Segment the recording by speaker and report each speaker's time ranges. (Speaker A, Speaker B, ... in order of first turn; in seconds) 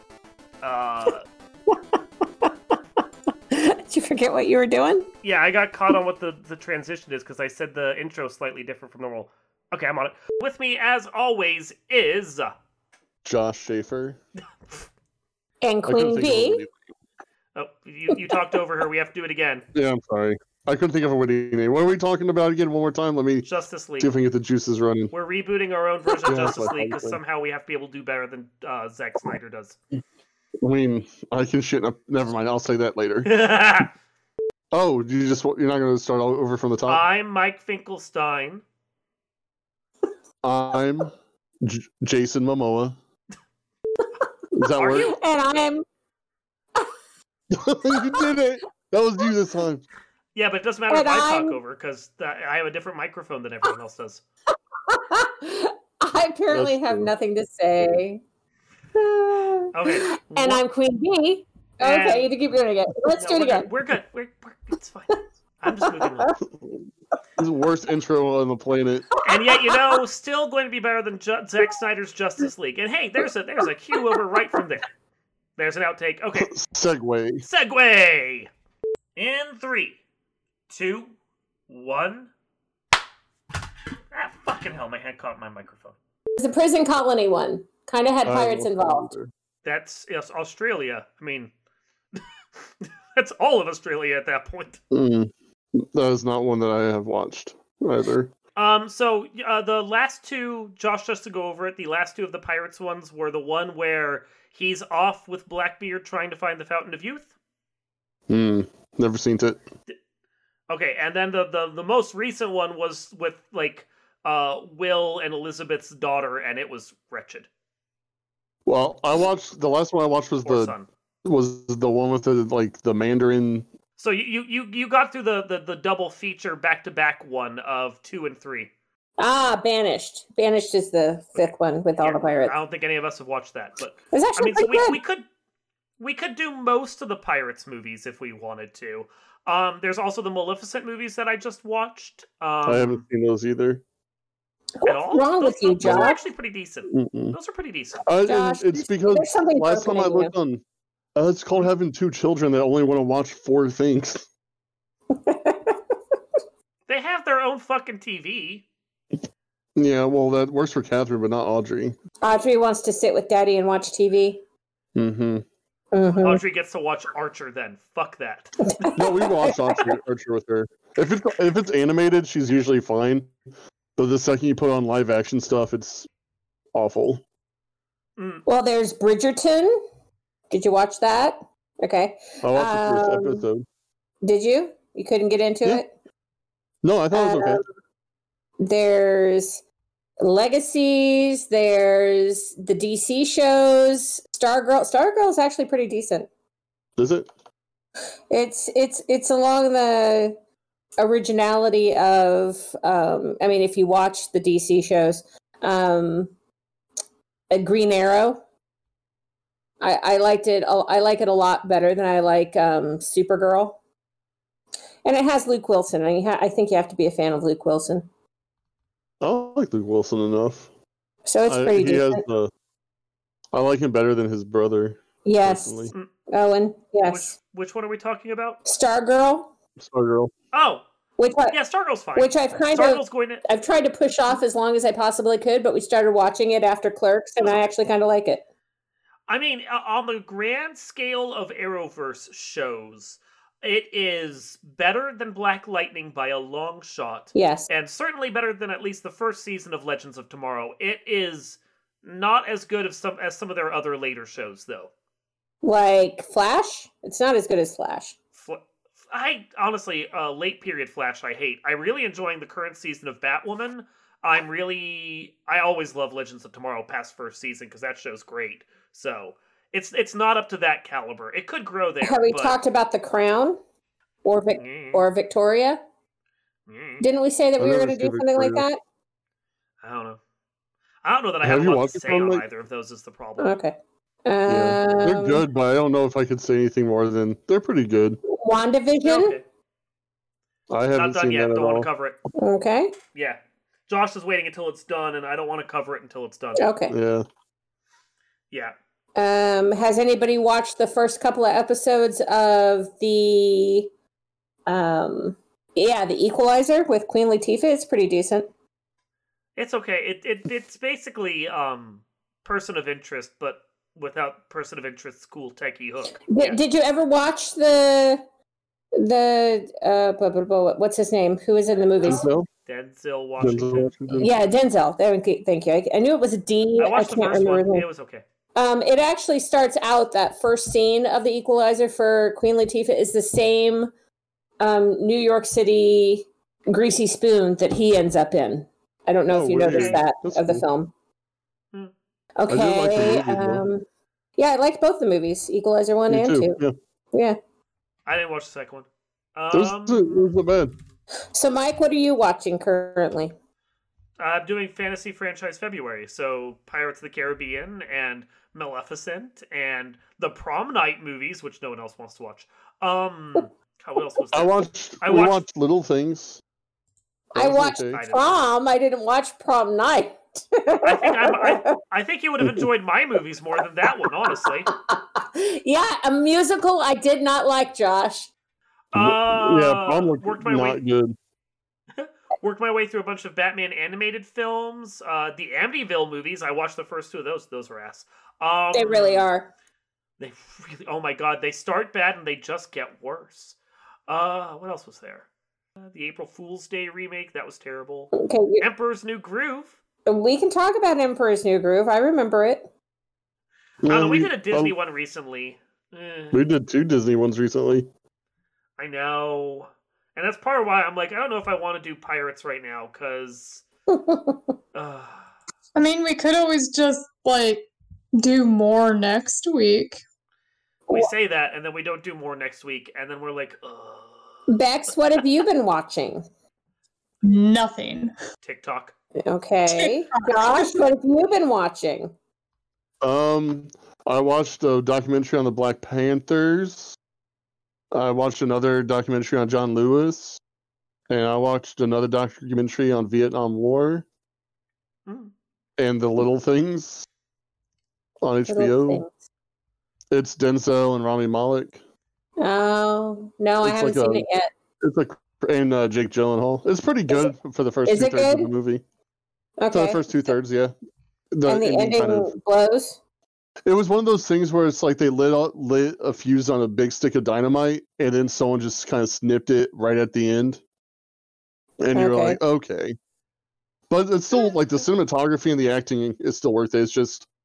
Speaker A: 0.6-1.2, 5.2-12.5, 17.6-19.6, 23.4-24.1, 25.1-29.8, 33.3-33.9, 36.9-38.6, 44.8-45.1, 50.4-54.2, 59.7-60.6, 61.8-62.3, 63.1-66.4, 69.2-74.9, 75.6-76.5, 77.4-78.5, 79.2-80.0, 80.7-81.1, 81.7-82.3, 84.1-86.0, 89.6-91.5, 92.8-94.8, 98.6-107.3, 110.7-117.5, 120.4-120.9, 124.0-128.7, 131.4-135.3, 136.0-143.0, 144.8-148.0, 156.9-158.7, 166.2-168.6, 178.2-178.4, 227.0-228.6, 230.5-230.9, 231.5-233.4, 237.4-237.7, 239.3-254.9, 258.4-272.6, 274.6-275.1, 276.7-277.1, 279.8-280.2, 281.0-283.6, 289.0-289.4, 290.9-292.2, 293.1-296.7, 309.6-316.6, 322.7-324.0, 326.8-328.2, 339.7-340.0, 348.1-350.3, 354.2-365.4, 367.9-368.5, 370.8-374.7, 378.9-380.8, 382.0-389.3, 390.2-393.6, 394.1-395.3, 395.8-399.8, 403.9-406.4, 408.8-413.6, 414.7-415.3, 420.9-424.4, 428.4-428.9, 445.1-445.3
Speaker B: 3.5-5.1, 15.6-16.6, 45.0-45.8, 48.1-48.3, 50.9-51.6, 54.9-58.2, 58.9-63.7, 65.9-66.3, 86.4-89.1, 129.2-132.6, 134.1-135.0, 144.8-146.2, 148.3-150.3, 155.2-155.8, 162.2-164.4, 165.9-166.4, 168.7-169.9, 178.5-179.8, 180.5-183.5, 184.2-185.9, 187.1-187.6, 188.6-189.6, 190.2-196.3, 198.3-200.3, 201.0-206.3, 207.5-208.4, 209.8-213.8, 215.1-218.1, 221.3-222.2, 225.2-227.3, 228.7-229.5, 231.2-231.6, 232.2-238.4, 247.3-247.7, 255.6-258.2, 272.0-273.6, 274.2-275.8, 277.0-278.8, 283.4-285.4, 288.4-289.4, 292.4-292.9, 296.6-296.9, 299.2-303.9, 304.7-308.5, 316.3-318.2, 319.0-322.3, 324.1-327.9, 328.6-333.9, 334.6-340.9, 342.4-343.9, 344.4-346.6, 351.3-353.3, 367.3-371.7, 374.7-378.3, 388.7-389.5, 398.1-398.7, 400.1-402.6, 413.9-414.4, 424.5-426.2, 429.3-432.1, 448.5-449.1, 452.4-454.5, 457.9-458.5, 459.6-460.3, 461.5-463.0, 471.9-472.4
Speaker C: 13.2-14.2, 15.9-16.8, 19.7-23.5, 24.0-25.1, 26.3-27.2, 30.6-33.3, 34.7-37.0, 40.4-43.0, 44.5-45.1, 47.5-49.8, 56.5-57.1, 66.6-66.8, 67.4-69.1, 76.4-77.5, 88.2-89.3, 94.9-98.3, 108.3-109.6, 118.7-123.7, 142.7-143.8, 145.8-146.1, 146.9-147.4, 148.1-150.6, 151.2-154.2, 159.8-162.0, 165.0-165.4, 169.0-173.3, 174.0-176.1, 176.7-177.2, 182.4-183.7, 186.8-187.6, 197.0-197.3, 219.2-220.7, 221.5-222.5, 223.5-225.9, 229.8-230.3, 277.6-278.6, 281.4-282.4, 284.5-288.2, 290.7-291.9, 296.9-297.3, 322.0-322.5, 323.4-324.3, 339.3-340.6, 342.5-343.7, 346.1-346.7, 349.5-350.8, 364.3-366.4, 367.4-368.0, 378.9-381.1, 403.8-404.7, 406.3-407.9, 433.0-437.0, 437.9-440.4, 441.1-444.1, 445.8-447.1, 448.2-449.1, 450.1-451.8, 453.6-454.3, 454.8-458.8, 459.7-460.7, 461.3-462.3, 463.7-470.6, 471.8-472.9, 473.9-477.3
Speaker D: 415.8-420.0, 427.2-428.1, 429.7-430.6